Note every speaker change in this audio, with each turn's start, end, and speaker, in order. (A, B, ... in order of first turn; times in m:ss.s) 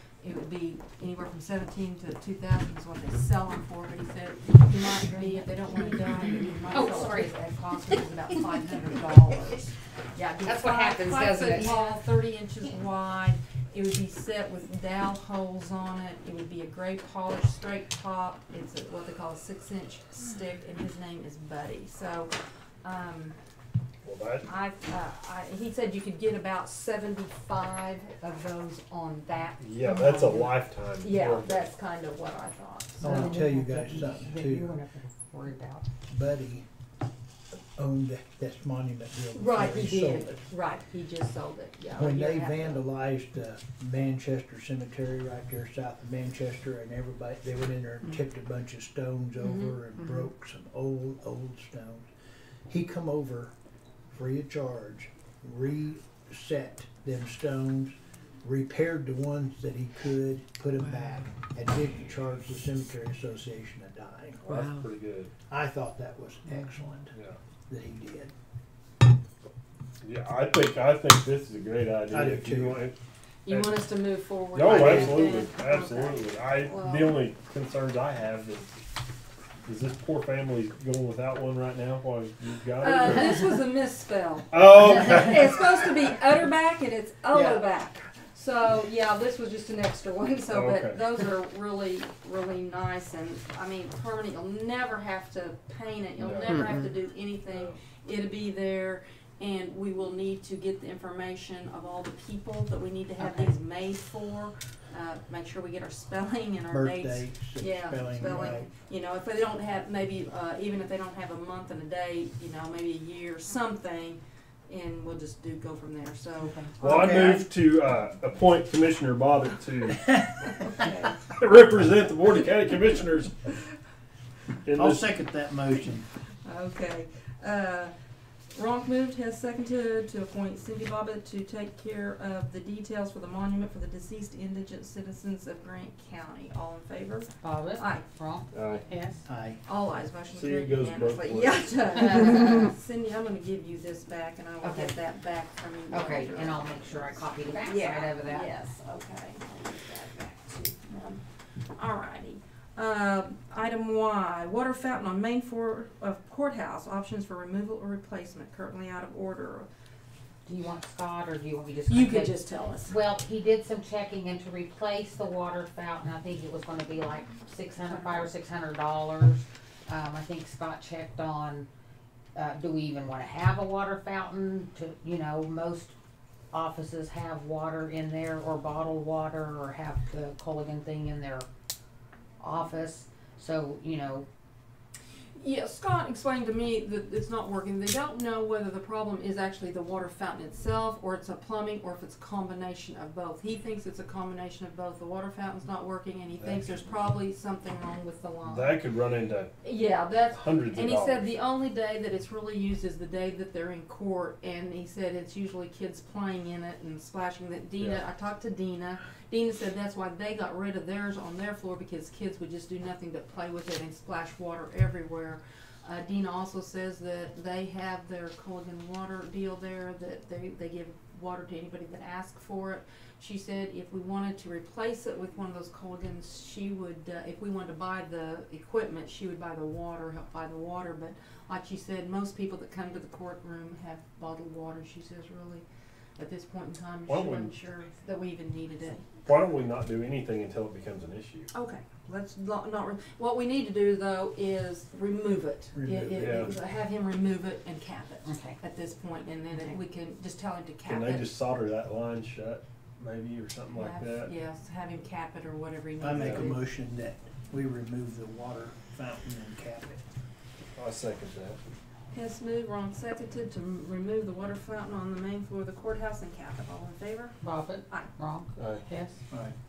0:00.2-0:23.3 A
0:05.1-0:08.5 B
0:10.4-0:12.0 B
0:24.0-0:24.5 C
0:24.4-0:33.4 A
0:29.6-0:31.7 C
0:33.0-0:34.8 D
0:33.0-0:35.8 B
0:36.1-0:36.6 D
0:37.8-0:40.4 D
0:39.3-0:42.8 A
0:41.9-0:52.1 D
0:49.4-0:50.2 A
0:52.7-0:53.5 D
0:54.1-1:04.5 D
1:04.4-1:05.3 C
1:05.5-1:07.1 D
1:07.7-1:08.3 D
1:10.0-1:13.0 C
1:12.1-1:12.9 D
1:13.4-1:17.3 A
1:13.5-1:13.8 C
1:14.5-1:18.8 C
1:14.6-1:15.2 D
1:19.6-1:23.5 C
1:22.8-1:57.5 A
1:24.5-1:25.6 C
1:27.3-1:27.6 D
1:30.5-1:31.0 C
1:36.2-1:36.6 C
1:36.5-1:36.8 B
1:37.5-1:37.8 C
1:43.2-1:43.5 B
1:46.7-1:48.7 D
1:56.5-1:56.8 B
1:56.8-2:00.5 C
1:56.8-1:57.4 D
2:00.6-2:01.1 A
2:01.3-2:03.3 C
2:04.6-2:05.1 C
2:04.7-2:06.0 D
2:06.4-2:07.9 A
2:08.5-2:18.0 A
2:17.4-2:19.2 B
2:18.5-2:18.8 C
2:19.2-2:19.6 D
2:19.6-2:31.2 A
2:20.3-2:21.8 C
2:24.6-2:24.9 B
2:25.9-2:28.6 B
2:31.7-2:39.7 A
2:40.4-2:51.7 B
2:41.9-2:42.9 A
2:52.3-2:55.9 B
2:56.5-3:01.4 B
3:02.4-3:04.2 B
3:05.4-3:18.8 A
3:16.4-3:16.6 C
3:18.4-3:19.6 C
3:19.6-3:55.6 A
3:20.3-3:21.3 C
3:56.2-3:59.1 A
3:57.1-3:57.5 C
3:59.2-4:01.5 C
4:01.5-4:11.3 A
4:05.7-4:06.5 D
4:06.2-4:06.5 C
4:08.2-4:08.6 B
4:10.8-4:14.3 C
4:13.7-4:16.6 A
4:16.0-4:20.0 D
4:16.1-4:16.4 C
4:20.8-4:21.6 C
4:22.1-4:27.4 A
4:27.4-4:29.2 B
4:28.6-4:28.8 C
4:29.3-4:29.6 D